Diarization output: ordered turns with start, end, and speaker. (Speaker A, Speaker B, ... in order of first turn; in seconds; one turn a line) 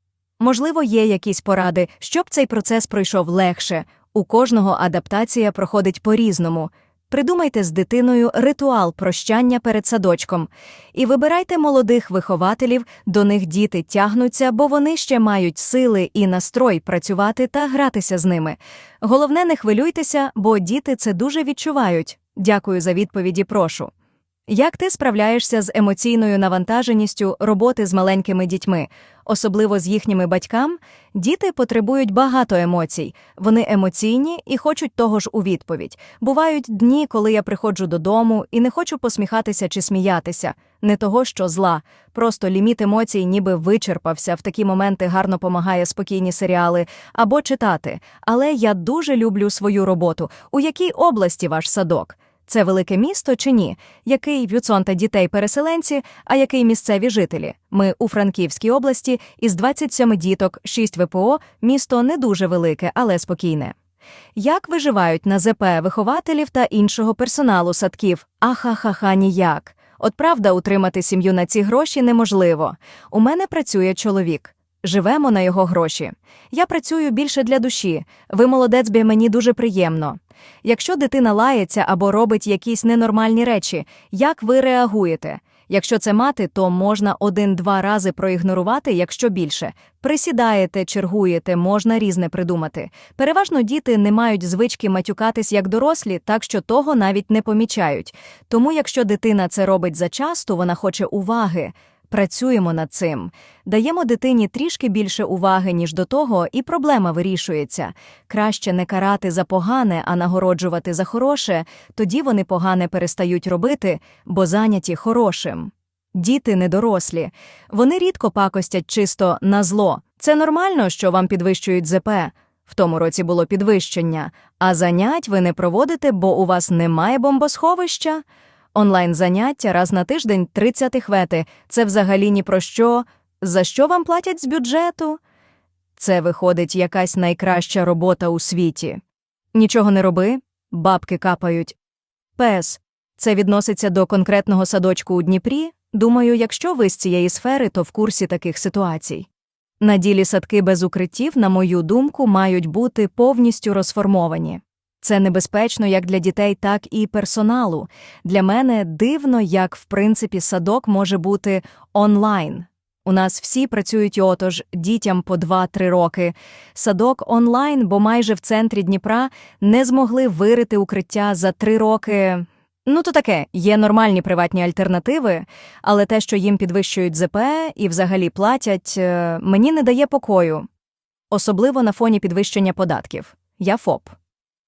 Speaker A: 0.4-23.9
Speaker A: 24.5-63.7
Speaker A: 64.3-128.2
Speaker A: 128.7-135.2
Speaker A: 135.9-139.0
Speaker A: 139.5-141.8
Speaker A: 142.4-149.3
Speaker A: 149.8-180.7
Speaker A: 181.3-184.1